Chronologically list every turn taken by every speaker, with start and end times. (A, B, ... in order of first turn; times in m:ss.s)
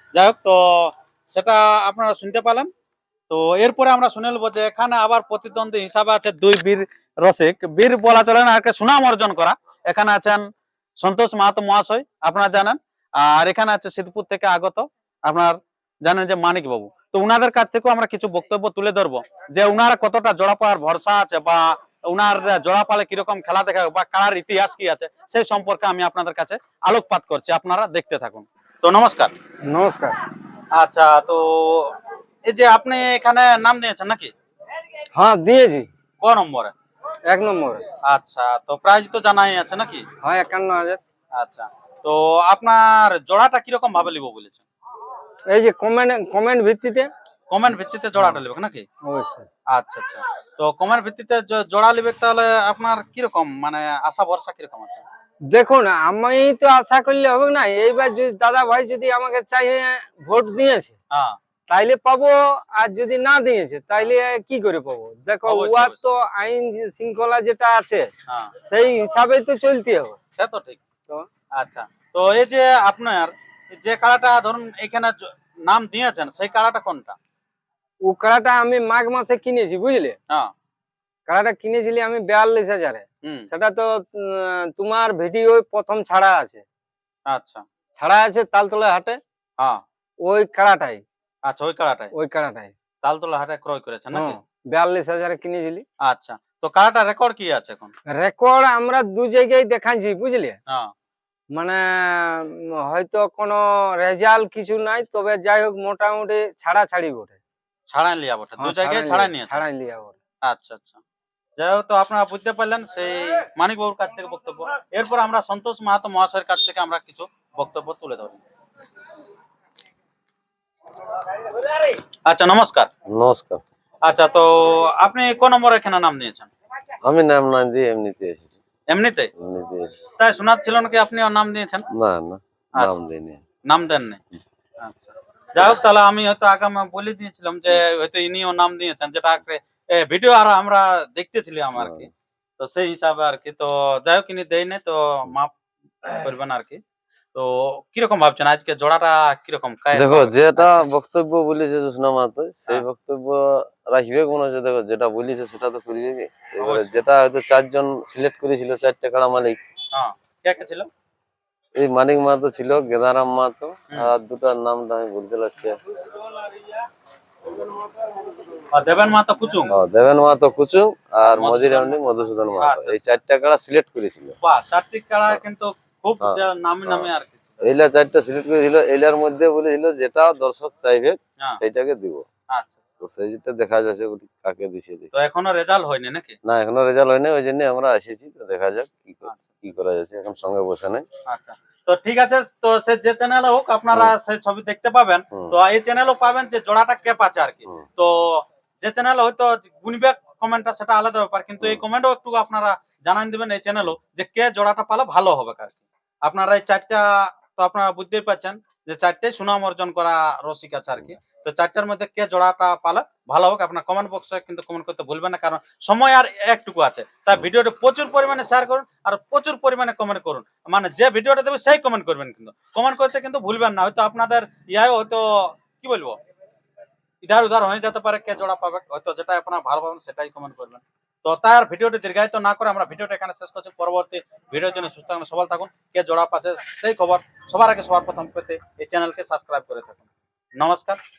0:00.1-0:02.7 A
0:03.3-0:10.5 A
0:11.0-0:29.3 A
0:29.6-0:30.2 B
0:30.7-0:31.9 A
0:32.5-0:34.3 A
0:35.2-0:35.9 B
0:36.2-0:36.7 A
0:37.3-0:37.8 B
0:38.0-0:40.0 A
0:40.2-0:41.0 B
0:41.4-0:44.6 A
0:45.5-0:47.1 B
0:47.5-0:48.9 A
0:49.0-0:49.5 B
0:49.7-0:55.0 A
0:55.5-1:01.0 B
1:01.7-1:08.1 B
1:05.4-1:06.0 A
1:08.6-1:10.2 B
1:10.4-1:10.8 A
1:11.6-1:17.2 A
1:18.1-1:20.2 B
1:21.3-1:26.6 B
1:23.2-1:23.5 A
1:27.3-1:27.6 A
1:28.0-1:29.2 B
1:30.2-1:31.0 B
1:31.5-1:32.1 A
1:32.1-1:32.7 B
1:33.0-1:34.4 A
1:34.1-1:35.8 B
1:36.0-1:37.9 A
1:38.2-1:40.6 B
1:41.5-1:47.4 B
1:47.9-1:49.6 A
1:48.6-1:50.2 B
1:50.4-1:51.0 A
1:51.6-1:58.4 A
2:02.3-2:02.9 A
2:03.1-2:03.6 C
2:04.0-2:06.5 A
2:07.0-2:08.6 C
2:08.9-2:09.3 A
2:09.4-2:09.9 C
2:10.2-2:11.9 A
2:11.9-2:13.4 C
2:13.7-2:14.2 A
2:14.8-2:22.1 A
2:21.8-2:22.1 C
2:22.6-2:25.5 A
2:26.0-2:26.8 A
2:27.4-2:30.9 A
2:29.9-2:39.6 C
2:36.6-2:37.0 A
2:39.9-2:40.9 A
2:41.8-2:45.9 C
2:48.7-2:49.7 A
2:49.7-2:54.4 C
2:51.2-2:52.0 A
2:52.5-2:53.0 A
2:54.4-2:57.6 A
2:56.2-2:57.1 C
2:57.6-3:02.3 C
3:02.5-3:02.8 A
3:03.0-3:05.1 C
3:05.1-3:06.4 A
3:06.4-3:11.1 C
3:11.3-3:46.2 A
3:47.2-4:00.1 A
4:00.6-4:01.0 A